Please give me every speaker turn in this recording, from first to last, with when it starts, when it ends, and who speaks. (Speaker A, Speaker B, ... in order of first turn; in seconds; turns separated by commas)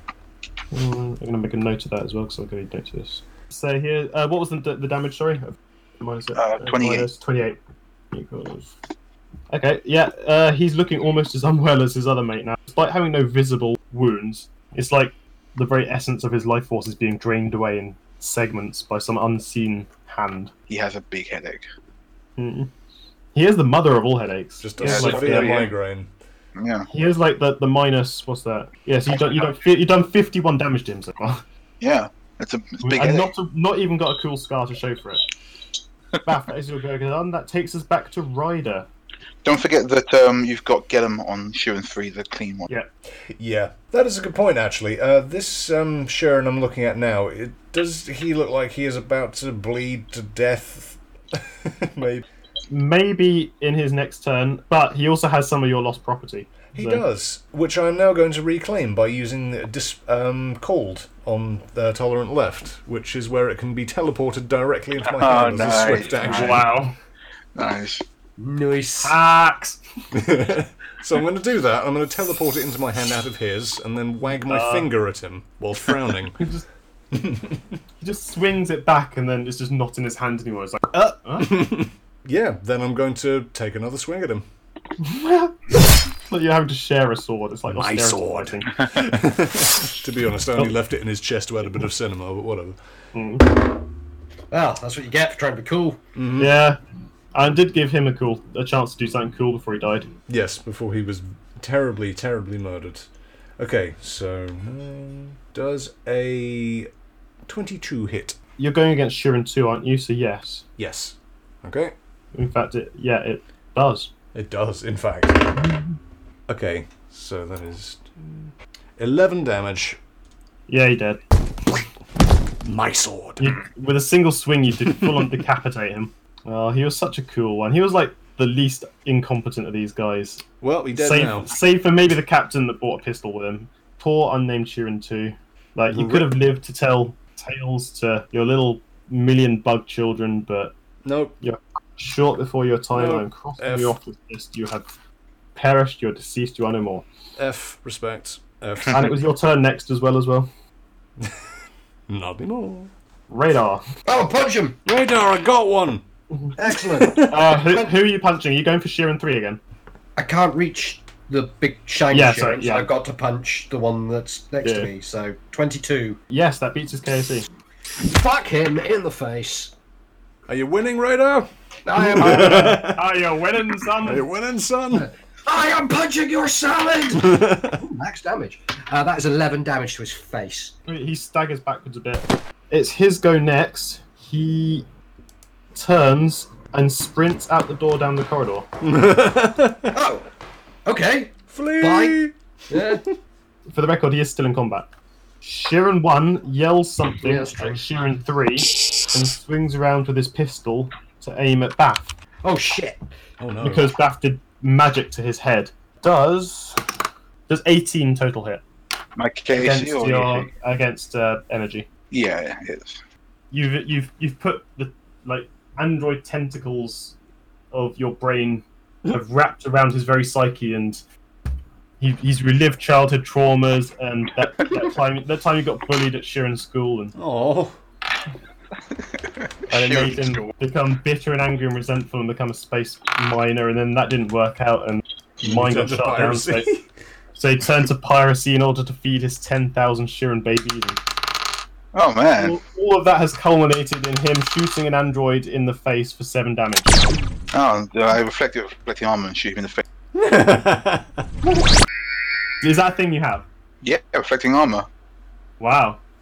Speaker A: 0.7-7.6, Speaker B: 6.3-7.1, Speaker A: 8.1-8.7, Speaker A: 9.5-20.5, Speaker B: 20.7-21.7, Speaker A: 22.4-22.7, Speaker A: 23.3-25.7, Speaker C: 24.6-26.1, Speaker B: 24.8-25.7, Speaker B: 26.6-26.9, Speaker A: 26.9-31.4, Speaker B: 31.8-33.3, Speaker A: 32.8-35.2, Speaker A: 36.2-38.9, Speaker B: 39.4-42.7, Speaker C: 43.3-52.2, Speaker A: 52.7-57.0, Speaker C: 56.7-66.7, Speaker B: 65.1-66.7, Speaker A: 66.2-67.0, Speaker B: 67.5-68.0, Speaker D: 68.4-69.2, Speaker A: 69.0-69.8, Speaker C: 70.1-76.5, Speaker A: 74.5-74.9, Speaker A: 76.4-76.7, Speaker C: 77.1-77.6, Speaker A: 78.0-81.6, Speaker C: 81.4-84.5, Speaker A: 85.0-88.9, Speaker C: 87.7-92.8, Speaker A: 93.1-93.5, Speaker D: 94.5-96.0, Speaker C: 96.2-96.5, Speaker A: 96.4-96.8, Speaker A: 97.3-100.1, Speaker C: 100.3-103.1, Speaker C: 103.6-106.9, Speaker C: 107.5-108.4, Speaker A: 108.6-110.7, Speaker C: 110.8-111.9, Speaker A: 112.3-114.1, Speaker C: 114.3-115.5, Speaker A: 115.6-116.0, Speaker C: 116.5-120.0, Speaker A: 120.7-121.2, Speaker C: 122.6-123.6, Speaker A: 123.4-130.4, Speaker C: 124.9-125.3, Speaker C: 130.6-131.5, Speaker A: 130.9-140.7, Speaker C: 135.9-136.3, Speaker C: 141.0-141.4, Speaker A: 141.4-144.9, Speaker C: 142.9-143.9, Speaker A: 145.6-147.1, Speaker C: 147.4-149.2, Speaker A: 148.9-150.5, Speaker C: 151.2-151.4, Speaker C: 152.1-152.9, Speaker A: 153.3-153.8, Speaker D: 154.1-154.8, Speaker C: 154.9-156.0, Speaker D: 156.6-157.9, Speaker C: 156.9-157.5, Speaker A: 157.3-159.6, Speaker D: 160.2-166.2, Speaker A: 162.1-162.9, Speaker A: 164.6-164.9, Speaker A: 166.3-167.5, Speaker D: 168.0-169.7, Speaker C: 170.5-173.1, Speaker D: 171.8-172.7, Speaker A: 172.0-174.3, Speaker C: 173.7-175.1, Speaker D: 174.9-180.8, Speaker C: 177.2-177.8, Speaker A: 180.9-184.9, Speaker A: 185.7-188.7, Speaker C: 188.8-189.9, Speaker D: 189.9-190.3, Speaker D: 190.9-192.2, Speaker C: 191.5-193.1, Speaker D: 192.7-193.0, Speaker A: 193.7-194.9, Speaker A: 195.4-202.1, Speaker D: 197.2-197.8, Speaker D: 202.4-203.0, Speaker C: 203.4-203.9, Speaker A: 203.6-206.8, Speaker A: 207.5-208.6, Speaker B: 209.2-210.5, Speaker A: 209.5-211.9, Speaker B: 212.1-213.0, Speaker A: 213.5-217.2, Speaker A: 217.7-221.0, Speaker A: 222.0-227.2, Speaker C: 227.2-227.8, Speaker B: 229.1-230.5, Speaker A: 229.7-236.7, Speaker C: 235.4-236.8, Speaker A: 237.3-241.0, Speaker B: 241.9-242.6, Speaker A: 242.4-247.2, Speaker B: 247.5-249.8, Speaker C: 250.2-251.2, Speaker A: 252.6-253.5, Speaker B: 253.8-254.9, Speaker A: 255.6-256.0